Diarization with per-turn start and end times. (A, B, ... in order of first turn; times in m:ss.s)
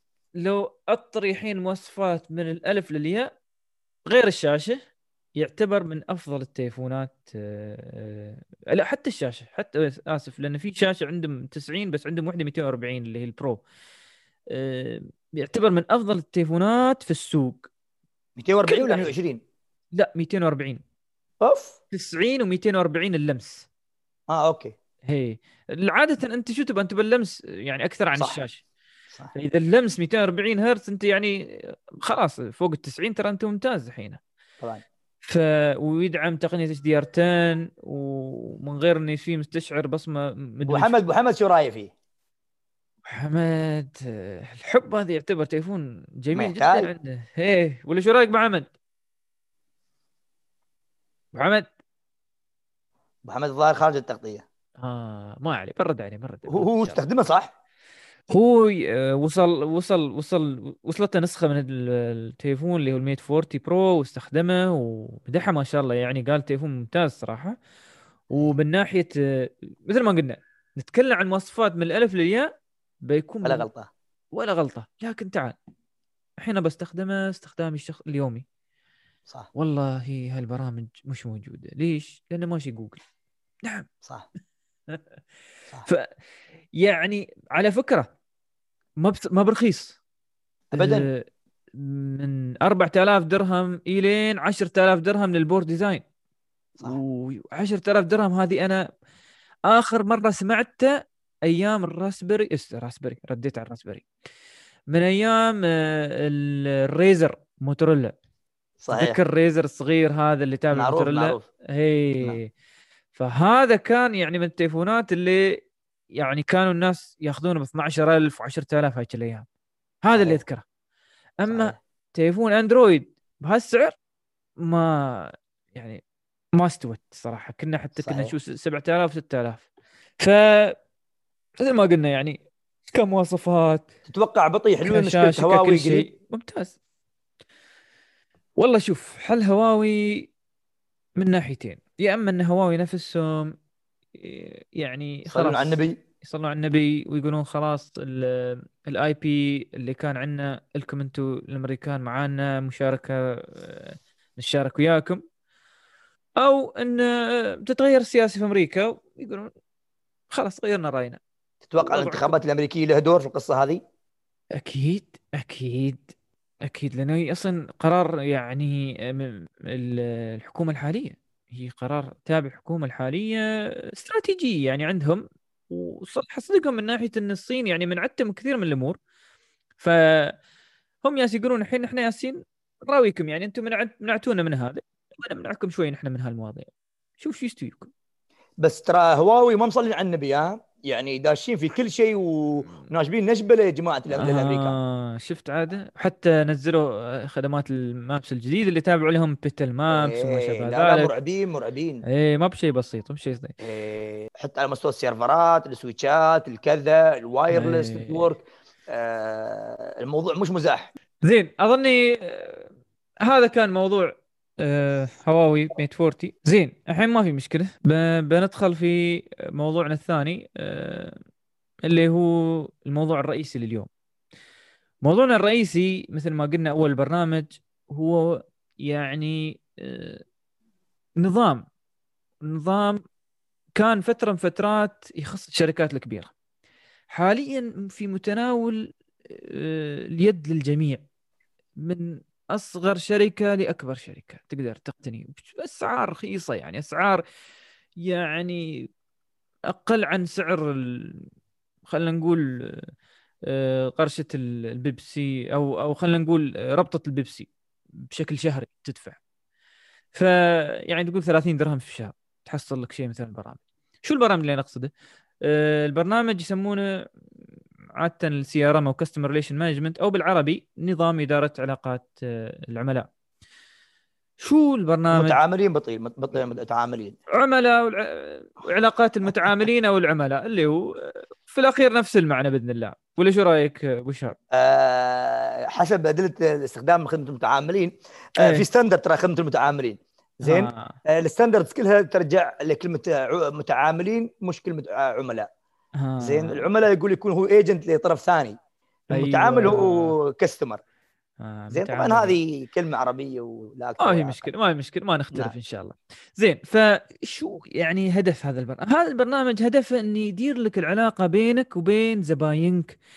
0:00.4-0:03.3 A
0:04.1-0:04.8 A
0:05.4-0:13.6 A
0:14.5-0:17.7 A
0:18.4-0:19.4 B
0:18.7-0:19.1 A
0:20.0-0:20.8 A
0:21.4-0:21.8 B
0:21.9-0:23.7 A
0:24.3-0:24.7 B
0:25.0-0:28.6 A
0:29.3-0:34.2 A
0:35.2-0:41.0 A
0:40.7-0:41.9 B
0:43.0-0:48.7 A
0:46.3-0:46.9 B
0:51.4-0:51.7 A
0:53.2-0:54.4 B
0:54.8-0:57.0 A
0:56.5-0:57.5 B
0:58.3-1:07.6 A
1:08.3-1:12.5 A
1:13.0-1:13.7 A
1:13.4-1:13.9 B
1:14.3-1:15.6 A
1:16.4-1:18.4 A
1:19.6-1:23.0 A
1:26.8-1:28.1 A
1:29.0-1:30.0 A
1:30.7-1:31.1 B
1:30.8-1:36.0 A
1:36.8-1:38.8 A
1:39.7-1:44.1 A
1:44.9-1:48.2 A
1:48.8-1:49.2 B
1:48.9-1:52.5 A
1:50.7-1:51.5 B
1:53.1-1:55.6 A
1:56.2-1:59.5 A
2:00.0-2:00.6 A
2:00.2-2:00.4 B
2:01.4-2:04.0 A
2:01.5-2:01.8 B
2:04.7-2:06.0 A
2:06.6-2:09.7 A
2:08.0-2:08.3 B
2:10.2-2:10.8 A
2:11.6-2:12.4 A
2:12.9-2:13.9 A
2:14.1-2:16.1 B
2:14.8-2:16.8 A
2:18.6-2:20.3 A
2:21.2-2:23.5 A
2:24.2-2:35.2 A
2:25.3-2:26.0 B
2:36.4-2:39.5 A
2:40.3-2:41.2 A
2:41.7-2:43.8 B
2:41.8-2:42.4 A
2:44.6-2:53.4 A
2:53.9-2:59.0 A
2:59.8-3:00.4 A
3:01.0-3:07.9 A
3:08.6-3:14.8 B
3:14.2-3:21.1 A
3:19.9-3:22.0 B
3:22.1-3:23.5 A
3:23.6-3:30.9 B
3:27.5-3:28.3 A
3:31.2-3:32.7 A
3:33.2-3:41.2 A
3:41.9-3:43.9 A
3:45.0-3:50.2 A
3:51.2-3:51.7 A
3:52.4-3:53.0 A
3:53.8-3:56.3 A
3:57.1-4:01.0 A
4:01.8-4:07.2 A
4:08.0-4:08.9 A
4:09.7-4:11.3 A
4:11.9-4:12.9 A
4:13.5-4:17.5 A
4:18.1-4:19.2 A
4:20.1-4:24.9 A
4:25.5-4:26.9 A
4:28.0-4:33.1 A
4:34.4-4:35.4 A
4:35.1-4:37.2 B
4:37.4-4:44.4 A
4:39.3-4:39.6 B
4:44.5-4:55.5 B
4:48.4-4:48.6 A
4:50.4-4:51.0 A
4:56.0-4:56.7 A
4:56.2-4:58.6 B
4:59.1-5:00.2 A
4:59.1-5:00.8 B
5:01.4-5:02.4 A
5:01.7-5:04.5 B
5:04.0-5:13.0 A